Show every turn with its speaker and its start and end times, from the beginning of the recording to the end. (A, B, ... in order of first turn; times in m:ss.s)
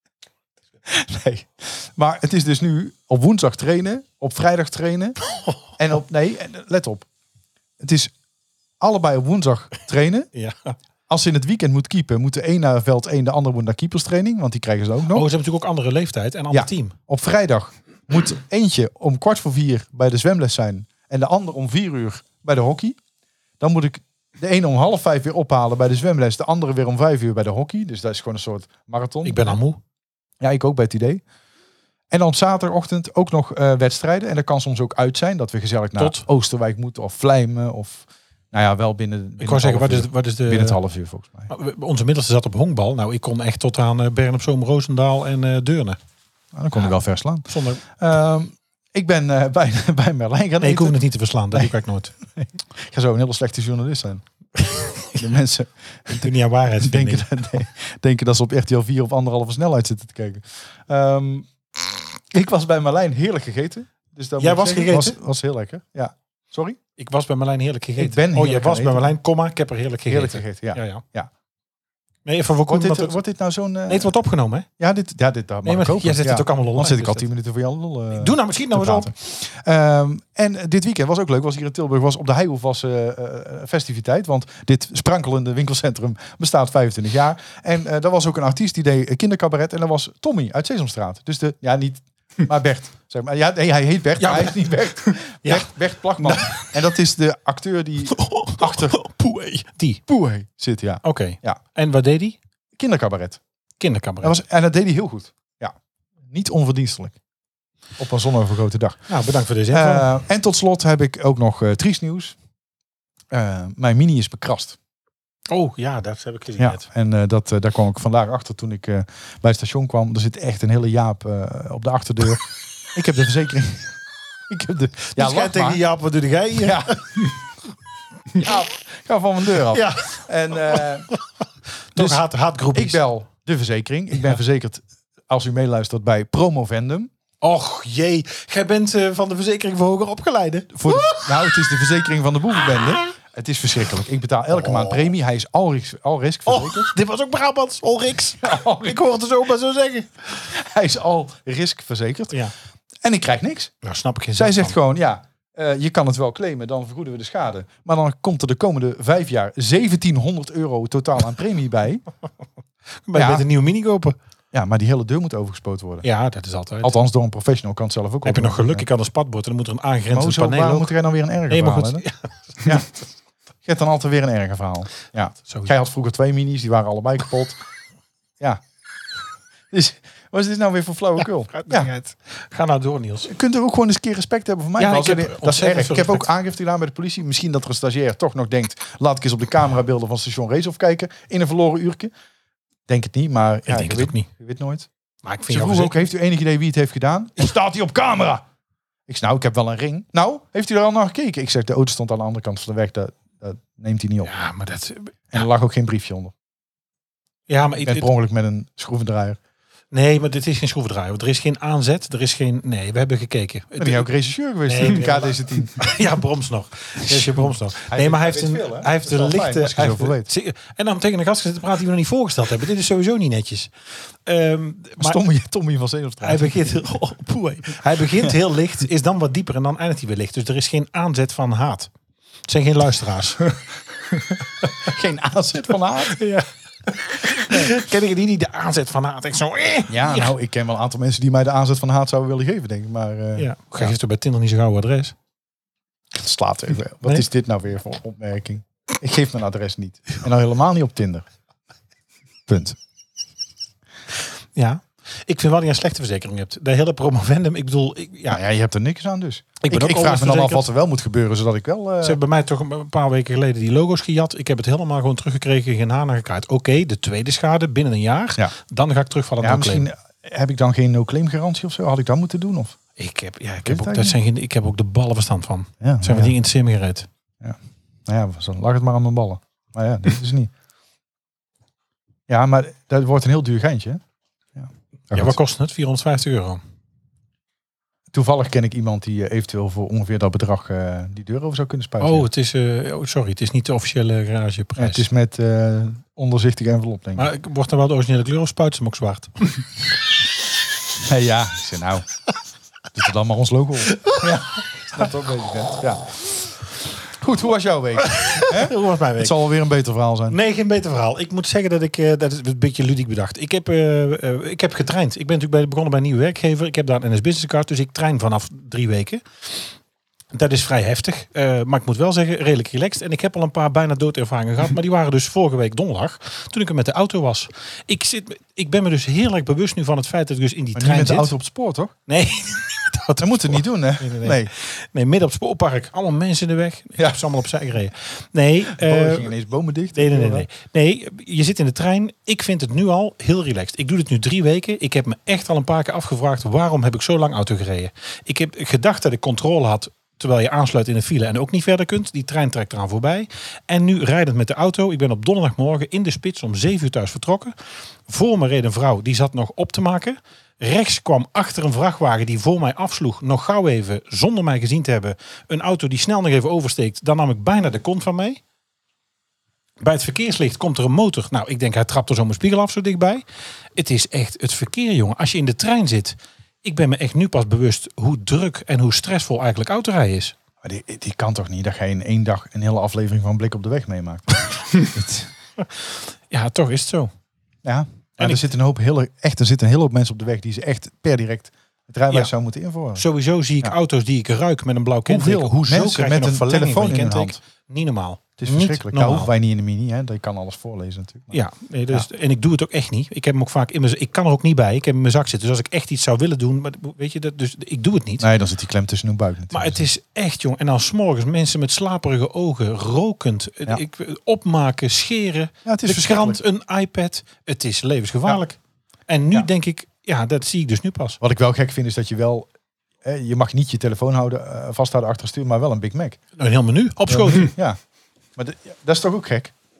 0:00.8-0:05.2 A
0:05.3-0:05.6 B
0:05.8-0:07.1 A
0:07.8-0:08.1 A
0:08.8-0:10.3 A
0:10.3-0:10.8 B
0:11.1-0:15.3 A
0:15.1-0:17.0 B
0:16.5-0:23.0 A
0:23.6-0:29.6 A
0:29.2-0:29.8 B
0:30.4-0:31.2 A
0:32.1-0:41.5 A
0:36.0-0:36.2 B
0:39.4-0:40.8 B
0:41.5-0:46.0 B
0:46.5-0:51.0 A
0:47.5-0:47.8 B
0:50.6-0:52.1 B
0:51.5-0:54.2 A
0:54.6-0:55.2 B
0:55.1-1:01.5 A
0:56.1-0:57.3 B
1:02.3-1:06.8 A
1:04.4-1:05.2 B
1:07.0-1:11.0 B
1:08.0-1:09.1 A
1:10.1-1:11.3 A
1:12.2-1:13.2 B
1:12.7-1:14.1 A
1:13.9-1:14.7 B
1:14.8-1:39.1 A
1:15.6-1:17.2 B
1:18.1-1:19.1 B
1:34.2-1:36.7 B
1:38.1-1:40.0 B
1:40.1-1:41.6 A
1:41.0-1:42.4 B
1:42.8-1:43.4 A
1:43.8-1:44.4 B
1:44.2-1:45.7 A
1:46.3-1:47.2 A
1:48.0-1:49.0 A
1:49.1-1:50.1 B
1:49.7-1:52.4 A
1:53.3-1:54.8 A
1:55.5-1:56.8 B
1:56.6-2:05.8 A
2:05.1-2:06.9 B
2:06.6-2:07.2 A
2:08.3-2:11.1 A
2:09.7-2:10.2 B
2:10.7-2:11.2 B
2:11.9-2:13.0 B
2:12.0-2:17.1 A
2:17.4-2:21.7 B
2:20.7-2:26.9 A
2:24.5-2:25.1 B
2:26.5-2:30.1 B
2:28.4-2:29.0 A
2:30.4-2:32.4 A
2:33.0-2:33.7 A
2:33.8-2:34.7 B
2:34.4-2:42.0 A
2:43.0-2:44.2 B
2:43.1-2:43.4 A
2:44.5-2:46.1 A
2:46.0-2:47.0 B
2:46.8-2:48.8 A
2:48.2-2:50.9 B
2:50.1-2:52.0 A
2:51.5-2:52.9 B
2:52.6-2:52.9 A
2:53.6-2:57.6 A
2:55.4-2:55.7 B
2:59.7-3:01.9 A
3:01.5-3:03.3 B
3:03.2-3:12.1 A
3:04.8-3:06.3 B
3:12.9-3:14.9 A
3:13.7-3:14.3 B
3:15.2-3:16.0 B
3:15.5-3:18.4 A
3:19.1-3:24.3 A
3:24.2-3:25.4 B
3:25.3-3:26.3 A
3:27.5-3:28.1 B
3:27.8-3:29.4 A
3:29.9-3:34.1 B
3:33.8-3:36.0 A
3:34.6-3:43.7 B
3:37.0-3:40.3 A
3:44.2-3:45.2 B
3:45.0-3:46.5 A
3:46.2-3:51.9 B
3:52.5-3:53.5 B
3:54.8-3:56.2 A
3:56.0-4:00.3 B
3:57.5-3:57.7 A
3:59.9-4:03.9 A
4:03.4-4:05.1 B
4:06.1-4:11.2 A
4:12.5-4:12.8 A
4:14.6-4:18.4 B
4:18.3-4:22.2 A
4:19.6-4:20.7 B
4:22.0-4:29.8 B
4:29.4-4:32.8 A
4:33.0-4:37.1 B
4:33.6-4:34.2 A
4:35.8-4:36.3 A
4:37.4-4:40.5 A
4:42.3-4:44.0 A
4:44.6-4:45.4 A
4:45.1-4:46.6 B
4:48.1-4:52.3 A
4:52.0-4:55.0 B
4:54.8-4:57.3 A
4:57.2-4:59.6 B
5:01.0-5:02.0 A
5:02.9-5:10.4 A
5:03.9-5:04.3 B
5:08.0-5:09.4 B
5:10.3-5:19.7 B
5:20.3-5:31.3 B
5:30.8-5:31.9 A
5:32.1-5:39.3 B
5:33.2-5:34.5 A
5:37.0-5:37.2 A
5:38.7-5:40.5 A
5:39.9-5:57.5 B
5:58.1-6:08.4 B
6:09.8-6:13.2 B
6:13.8-6:20.3 B
6:20.6-6:25.3 A
6:25.6-6:27.1 B
6:27.6-6:33.0 A
6:33.0-6:39.3 B
6:35.1-6:37.4 A
6:38.4-6:41.4 A
6:41.3-6:48.3 B
6:48.2-6:49.8 A
6:49.5-7:01.2 B
6:55.6-6:56.4 A
7:01.2-7:02.5 A
7:03.0-7:06.2 A
7:06.4-7:07.5 B
7:07.1-7:07.8 A
7:08.4-7:09.5 A